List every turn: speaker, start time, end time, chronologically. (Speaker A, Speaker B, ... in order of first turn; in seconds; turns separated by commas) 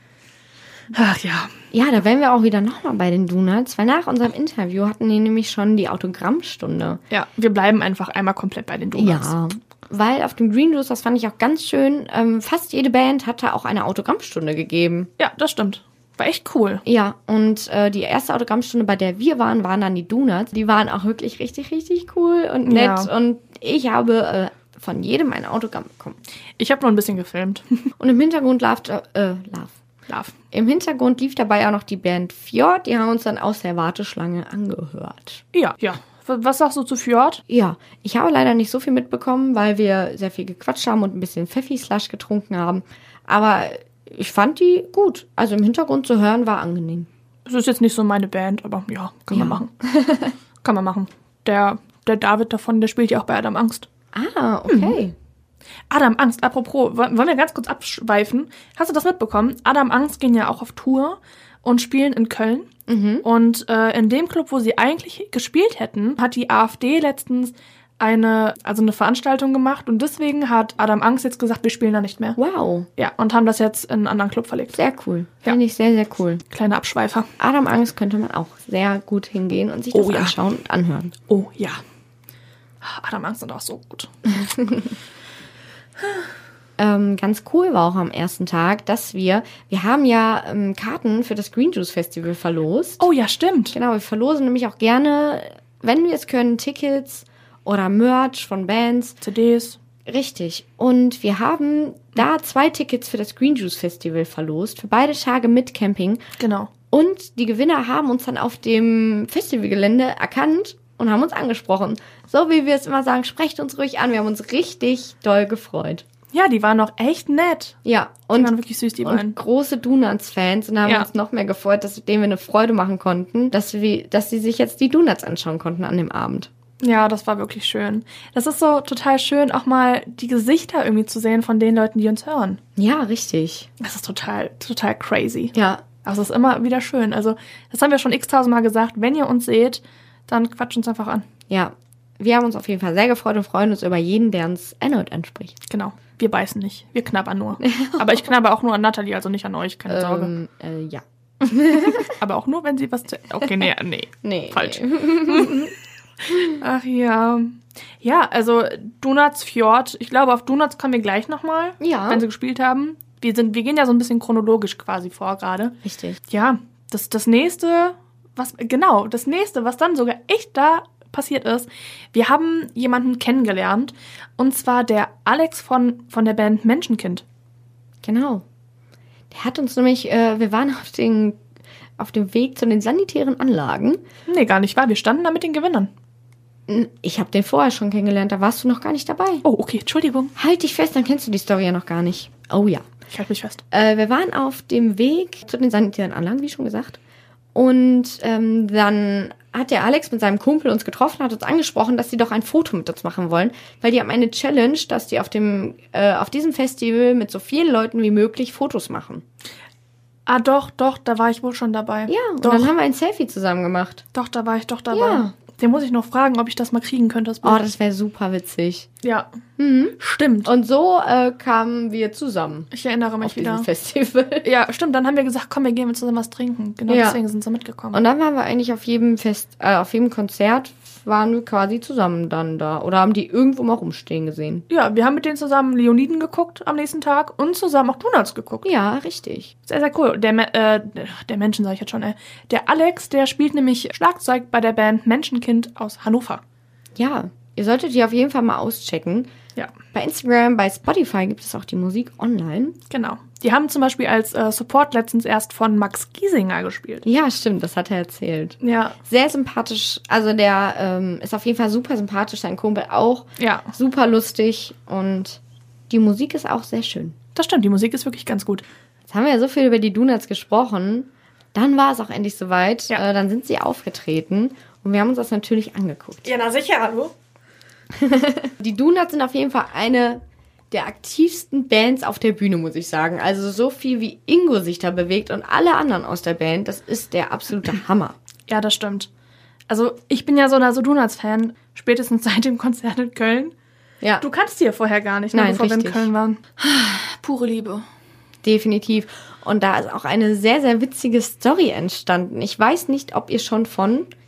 Speaker A: 0.9-1.5, Speaker B: 1.7-7.0, Speaker A: 7.1-9.3, Speaker B: 9.0-15.1, Speaker A: 15.2-16.8, Speaker B: 16.9-26.2, Speaker A: 22.7-23.1, Speaker A: 26.6-27.6, Speaker B: 28.0-29.8, Speaker B: 30.5-35.4, Speaker A: 35.5-37.4, Speaker B: 37.5-47.1, Speaker A: 47.5-49.7, Speaker B: 49.3-50.3, Speaker A: 50.6-53.9, Speaker B: 54.1-55.1, Speaker A: 54.7-55.0, Speaker A: 55.9-62.7, Speaker B: 62.9-63.3, Speaker A: 63.2-72.4, Speaker B: 72.4-72.9, Speaker A: 73.0-74.8, Speaker B: 74.7-76.4, Speaker A: 76.5-77.3, Speaker B: 77.4-81.1, Speaker A: 79.9-80.3, Speaker A: 81.3-81.8, Speaker A: 82.8-84.1, Speaker B: 86.8-93.1, Speaker A: 93.0-93.8, Speaker B: 93.7-99.2, Speaker A: 99.2-99.8, Speaker B: 100.1-106.2, Speaker A: 106.4-106.7, Speaker B: 106.9-116.0, Speaker A: 116.3-117.8, Speaker B: 117.8-126.5, Speaker A: 118.3-119.4, Speaker A: 126.8-132.6, Speaker B: 132.8-133.7, Speaker A: 133.8-141.2, Speaker B: 135.5-135.8, Speaker B: 141.5-145.6, Speaker A: 145.7-150.3, Speaker B: 147.6-148.2, Speaker B: 149.9-152.1, Speaker A: 151.9-155.7, Speaker B: 154.2-155.7, Speaker A: 156.3-165.8, Speaker B: 161.8-162.3, Speaker B: 165.8-166.2, Speaker A: 166.3-177.2, Speaker B: 178.0-178.4, Speaker B: 179.3-181.4, Speaker B: 182.0-184.0, Speaker A: 184.3-185.9, Speaker B: 186.7-189.4, Speaker A: 189.4-190.3, Speaker B: 190.4-192.9, Speaker A: 193.1-193.6, Speaker B: 193.7-197.0, Speaker B: 197.6-209.2, Speaker A: 210.3-212.7, Speaker B: 212.1-214.1, Speaker A: 214.1-217.6, Speaker B: 214.9-215.3, Speaker B: 217.4-218.9, Speaker B: 219.6-224.5, Speaker A: 220.0-220.5, Speaker A: 222.7-223.7, Speaker A: 224.4-228.0, Speaker B: 226.9-227.2, Speaker B: 227.9-234.7, Speaker A: 234.7-238.7, Speaker B: 238.6-239.5, Speaker A: 239.7-246.4, Speaker B: 246.9-249.3, Speaker B: 249.9-252.8, Speaker A: 252.9-257.1, Speaker B: 257.1-267.2, Speaker A: 258.6-258.9, Speaker A: 263.4-263.7, Speaker A: 267.4-268.6, Speaker B: 269.1-276.3, Speaker A: 276.3-277.1, Speaker B: 278.0-288.1, Speaker A: 288.5-289.1, Speaker A: 289.7-293.5, Speaker A: 294.2-297.9, Speaker B: 295.3-296.1, Speaker B: 298.4-304.1